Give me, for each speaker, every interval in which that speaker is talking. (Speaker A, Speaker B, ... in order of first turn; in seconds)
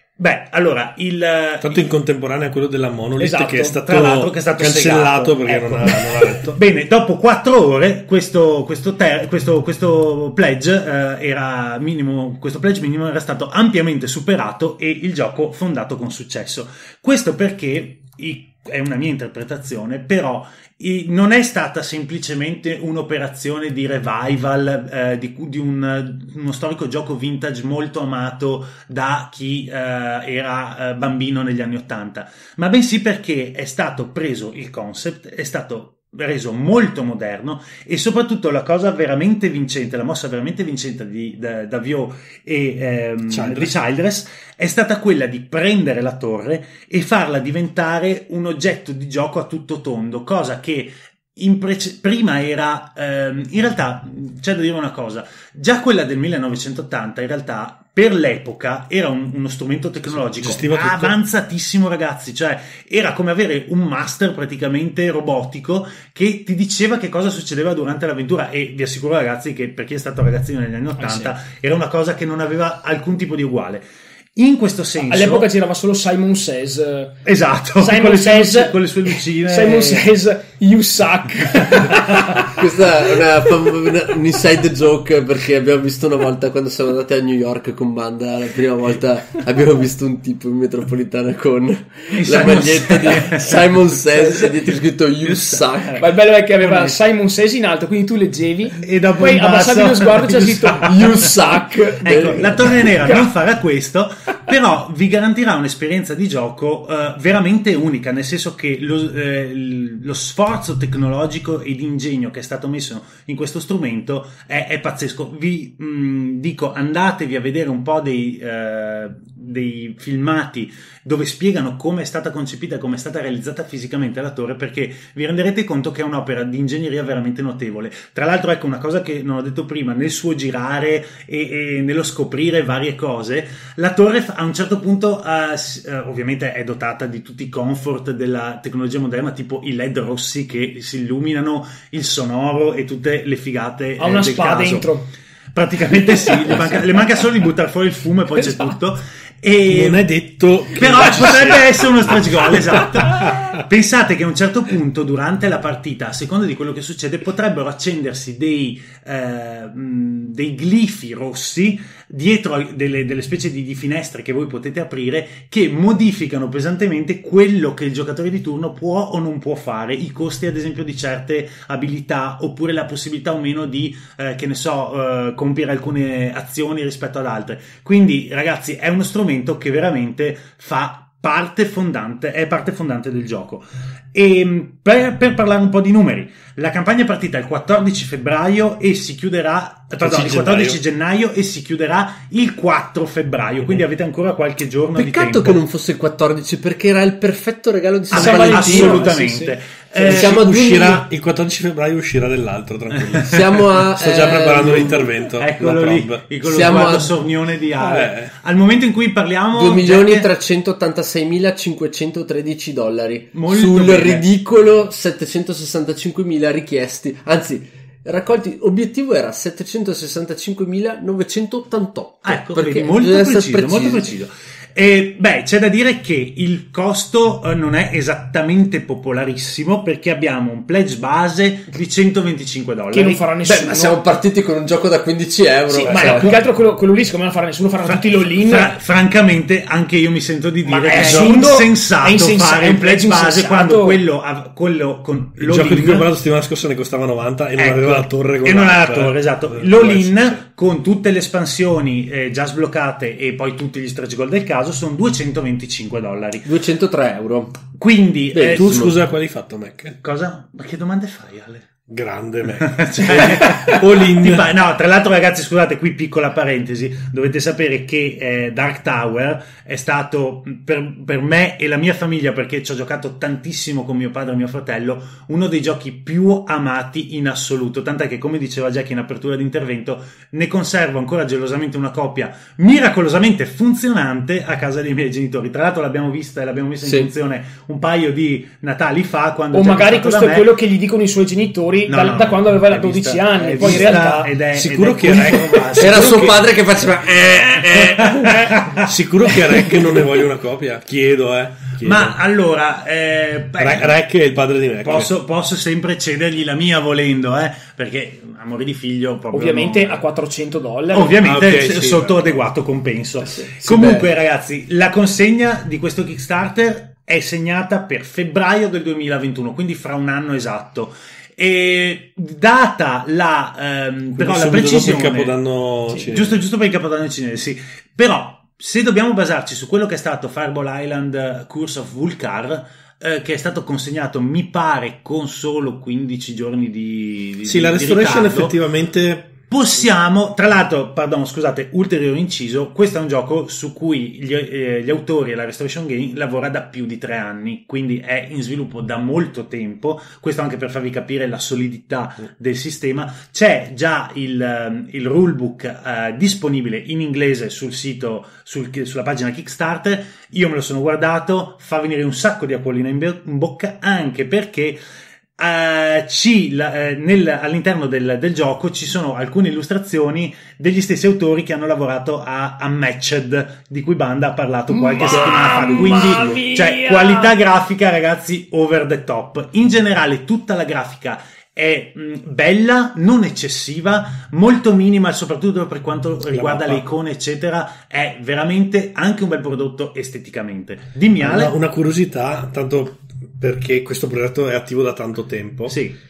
Speaker A: 0.2-1.9, 3.8-73.8, 74.4-75.5, 77.2-80.1, 92.1-93.8, 98.8-100.9, 102.0-145.0, 145.5-150.1, 150.7-195.6, 198.1-200.5, 202.9-203.2, 204.6-210.3, 213.3-214.2, 222.2-233.3, 235.7-236.3, 237.8-246.1, 247.6-256.5, 257.8-258.9, 260.0-261.7, 262.6-290.5, 291.9-296.4, 297.8-299.8, 301.8-304.0, 304.8-310.0, 310.9-325.4, 325.9-338.6, 339.5-364.8, 365.4-391.6, 395.7-396.0
Speaker B: 1.6-6.6, 43.3-43.7, 60.1-61.2, 95.2-95.8, 149.7-153.4, 190.0-190.8, 200.0-206.2, 207.8-208.3, 241.0-241.4, 245.4-250.4, 258.5-260.0, 261.9-264.5, 293.6-296.4, 298.8-302.2, 303.6-305.1, 311.2-312.4, 324.1-326.4, 337.5-339.3, 386.3-386.9, 391.2-395.8
Speaker C: 3.2-3.8, 71.0-71.3, 75.0-77.2, 77.8-82.6, 96.0-101.7, 103.0-103.3, 144.0-145.1, 198.1-199.6, 232.9-234.0, 235.8-238.8, 240.7-244.0, 289.5-294.3, 298.2-298.5, 309.3-311.2, 374.7-377.3
Speaker D: 82.4-96.1, 100.8-102.9, 195.0-199.1, 200.0-201.0, 203.2-205.1, 206.4-207.2, 209.5-224.1, 233.4-236.4, 256.4-257.6, 258.3-259.0, 286.8-287.1, 295.8-298.4, 313.6-314.1